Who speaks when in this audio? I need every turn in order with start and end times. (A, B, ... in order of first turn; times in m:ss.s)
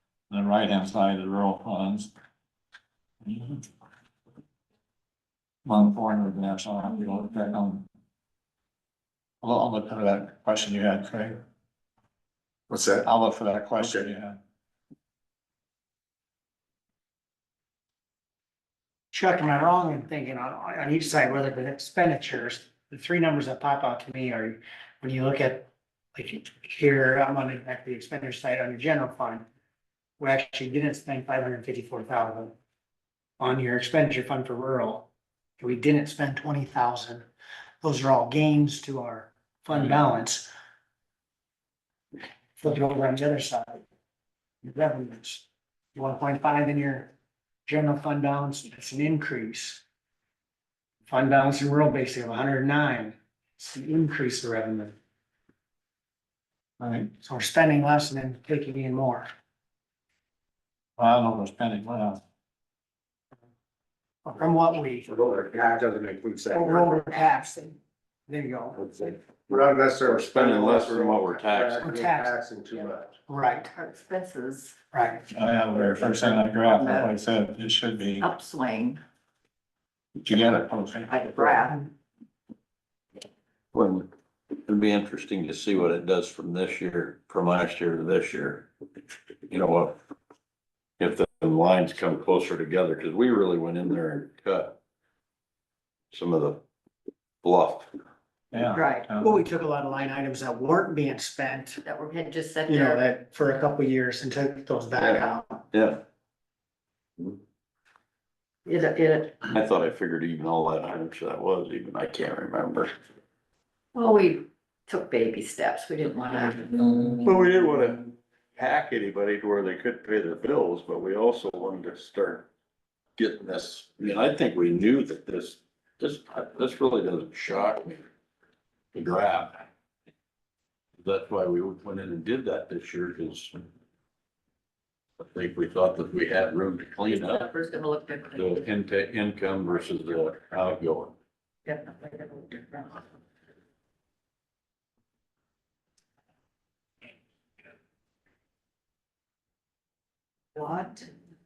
0:00.3-0:02.1 A
0:03.2-0:03.7 A
0:05.6-0:07.9 A
0:09.4-0:11.4 A
0:12.7-0:13.0 B
0:13.0-0:14.4 A
0:19.1-0:29.5 C
0:30.2-0:32.5 C
0:33.4-0:35.1 C
0:35.6-0:37.3 C
0:37.8-0:40.5 C
0:39.7-0:40.0 A
0:42.6-0:43.8 C
0:44.6-0:47.1 C
0:47.7-0:49.8 C
0:51.1-0:55.0 C
0:56.8-0:57.1 A
0:57.2-0:59.3 C
1:01.0-1:02.2 A
1:04.2-1:05.2 C
1:05.1-1:07.1 B
1:06.5-1:08.8 C
1:08.9-1:13.1 B
1:09.5-1:11.8 D
1:11.8-1:12.4 C
1:13.3-1:13.7 C
1:13.7-1:14.8 E
1:14.9-1:15.2 C
1:15.3-1:18.3 A
1:15.8-1:16.4 B
1:16.5-1:17.1 E
1:18.2-1:19.0 E
1:20.2-1:21.2 A
1:21.1-1:21.9 E
1:23.7-1:24.1 D
1:24.7-1:28.7 D
1:29.5-1:30.0 D
1:31.0-1:34.8 D
1:36.1-1:36.6 D
1:37.4-1:37.9 D
1:38.5-1:39.4 A
1:38.7-1:39.1 E
1:39.1-1:41.8 C
1:41.8-1:43.0 E
1:42.7-1:45.6 C
1:45.0-1:46.0 D
1:48.7-1:49.5 E
1:49.5-1:52.9 D
1:53.9-1:57.2 E
1:57.1-2:02.5 D
2:03.2-2:08.0 D
2:08.9-2:09.7 D
2:11.0-2:13.6 D
2:15.2-2:17.5 D
2:17.1-2:18.7 E
2:18.4-2:21.2 D
2:21.7-2:23.0 E
2:30.6-2:31.1 E